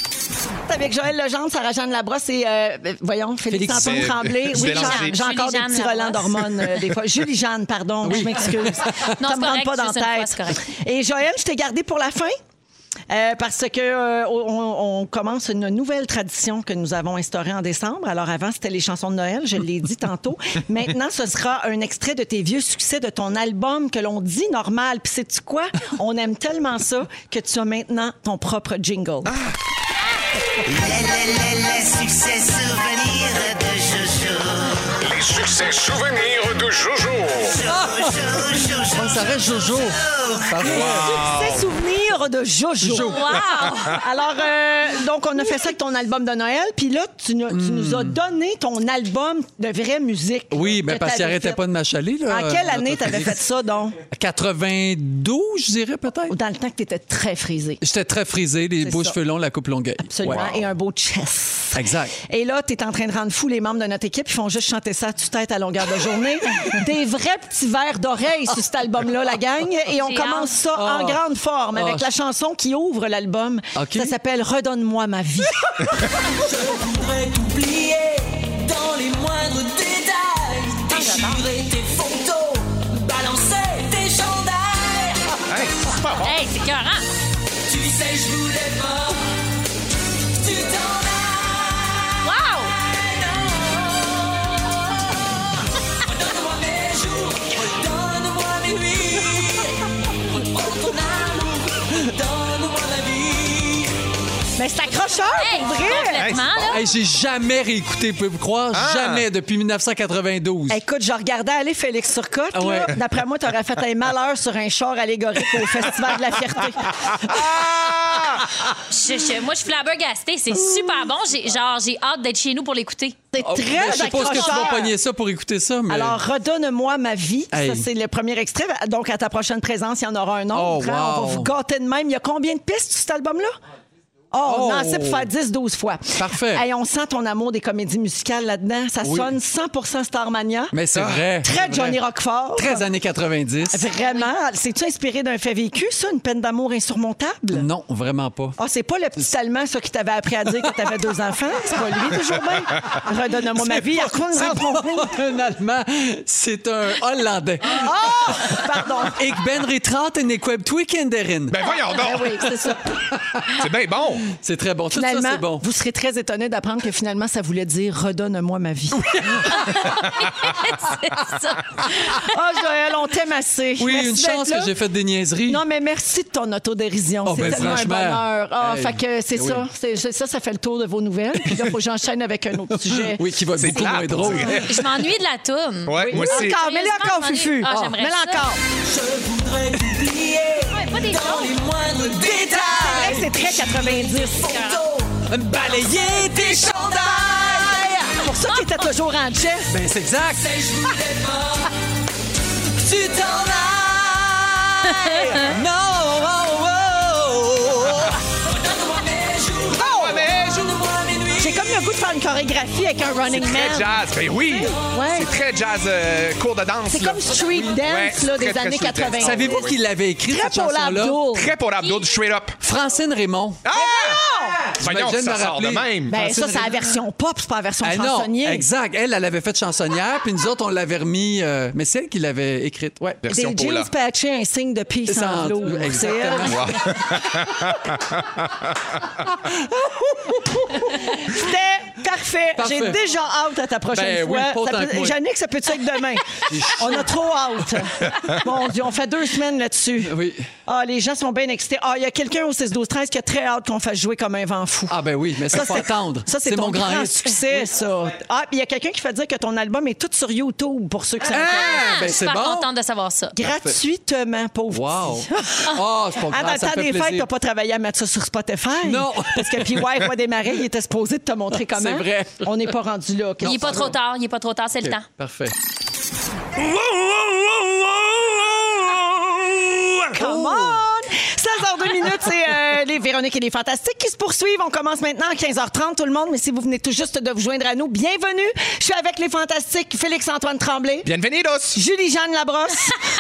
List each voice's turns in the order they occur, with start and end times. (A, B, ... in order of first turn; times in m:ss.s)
0:00.6-0:12.3 A
0:03.5-0:04.1 B
0:03.7-0:05.2 C
0:04.5-0:06.5 D
0:08.0-0:09.1 B
0:09.2-0:10.6 D
0:13.1-0:29.3 A
0:29.2-0:29.5 C
0:30.9-0:34.6 E
0:35.0-0:37.6 F
0:37.6-0:41.2 B
0:40.6-0:43.4 A
0:40.6-0:41.7 C
0:42.8-0:43.3 B
0:43.0-0:44.0 D
0:43.9-0:51.6 A
0:47.5-0:48.2 B
0:50.5-0:53.4 B
0:52.3-0:54.0 A
0:54.1-0:56.3 B
0:56.3-0:57.8 A
0:57.8-1:00.7 B
0:58.8-0:59.2 A
1:00.0-1:15.6 A
1:01.7-1:02.2 B
1:10.0-1:10.5 D
1:10.7-1:11.2 B
1:11.7-1:12.0 B
1:13.8-1:14.1 B
1:16.4-1:25.4 E
1:20.9-1:21.4 D
1:25.5-1:26.3 C
1:26.2-1:27.1 D
1:27.6-1:29.3 E
1:30.4-1:34.8 E
1:32.2-1:32.7 D
1:36.0-1:39.8 E
1:40.4-1:43.9 E
1:44.6-1:46.3 A
1:45.4-1:46.8 D
1:46.0-1:46.8 C
1:46.7-1:50.8 B
1:48.7-1:49.2 C
1:50.7-1:57.5 A
1:52.5-1:53.0 B
1:57.1-1:58.5 C
1:58.9-2:03.2 D
2:00.6-2:01.0 A
2:03.3-2:04.9 A
2:03.4-2:06.2 B
2:04.2-2:04.7 D
2:05.9-2:13.5 A
2:07.5-2:07.9 B
2:10.5-2:11.5 B
2:14.3-2:20.8 A
2:14.4-2:15.3 B
2:16.2-2:16.6 B
2:19.0-2:19.3 B
2:20.7-2:22.0 B
2:20.9-2:21.2 C
2:21.4-2:22.8 A
2:22.6-2:23.9 B
2:23.7-2:27.6 A
2:27.5-2:28.6 B
2:28.6-2:35.1 A
2:30.6-2:31.0 B
2:33.5-2:41.6 B
2:37.7-2:39.2 A
2:41.5-2:42.5 C
2:41.9-2:42.8 A
2:42.2-2:43.6 B
2:43.5-2:44.3 C
2:44.3-2:45.6 B
2:44.9-2:49.6 A
2:49.1-2:49.6 B
2:49.4-2:52.3 D
2:52.0-2:54.7 A
2:53.8-2:55.6 B
2:55.5-3:04.5 A
2:57.2-2:59.6 B
2:57.4-2:57.8 C
3:02.7-3:04.8 B
3:03.6-3:04.9 C
3:04.6-3:08.5 D
3:05.8-3:06.6 C
3:06.0-3:08.6 A
3:07.6-3:08.0 B
3:08.8-3:15.3 E
3:10.6-3:11.6 D
3:12.4-3:13.3 B
3:12.5-3:14.6 A
3:14.3-3:14.8 D
3:15.3-3:17.8 B
3:16.4-3:19.7 A
3:16.7-3:17.2 E
3:18.5-3:18.8 D
3:19.7-3:20.6 B
3:20.4-3:21.7 E
3:22.8-3:24.4 E
3:24.8-3:25.5 D
3:25.0-3:28.2 B
3:28.4-3:31.6 E
3:29.8-3:30.2 A
3:29.8-3:30.6 C
3:31.4-3:33.9 A
3:33.3-3:39.8 C
3:34.8-3:35.3 A
3:36.9-3:39.7 A
3:39.2-3:41.2 B
3:40.3-3:41.5 A
3:41.3-3:42.6 C
3:41.8-3:42.0 D
3:42.6-3:43.6 B
3:43.6-3:44.2 C
3:43.7-3:44.7 A
3:44.5-3:47.0 B
3:44.8-3:46.2 C
3:46.1-3:48.6 A
3:47.8-3:53.2 B
3:53.2-3:53.9 C
3:53.3-3:57.0 A
3:55.1-3:57.0 B
3:56.4-3:59.0 C
3:59.4-4:01.3 B
4:00.7-4:10.2 A
4:02.6-4:03.0 B
4:03.9-4:05.2 B
4:06.4-4:07.1 B
4:10.0-4:10.5 B
4:10.7-4:22.0 A
4:14.9-4:17.7 B
4:21.3-4:22.7 B
4:21.3-4:23.3 D
4:23.3-4:33.9 A
4:23.4-4:23.8 B
4:24.7-4:27.3 B
4:28.8-4:30.1 B
4:31.6-4:32.7 B
4:33.4-4:33.9 B
4:33.4-4:35.0 D
4:34.8-4:35.5 B
4:36.6-4:40.8 B
4:40.1-4:51.1 A
4:51.0-4:51.8 C
4:51.7-4:53.0 A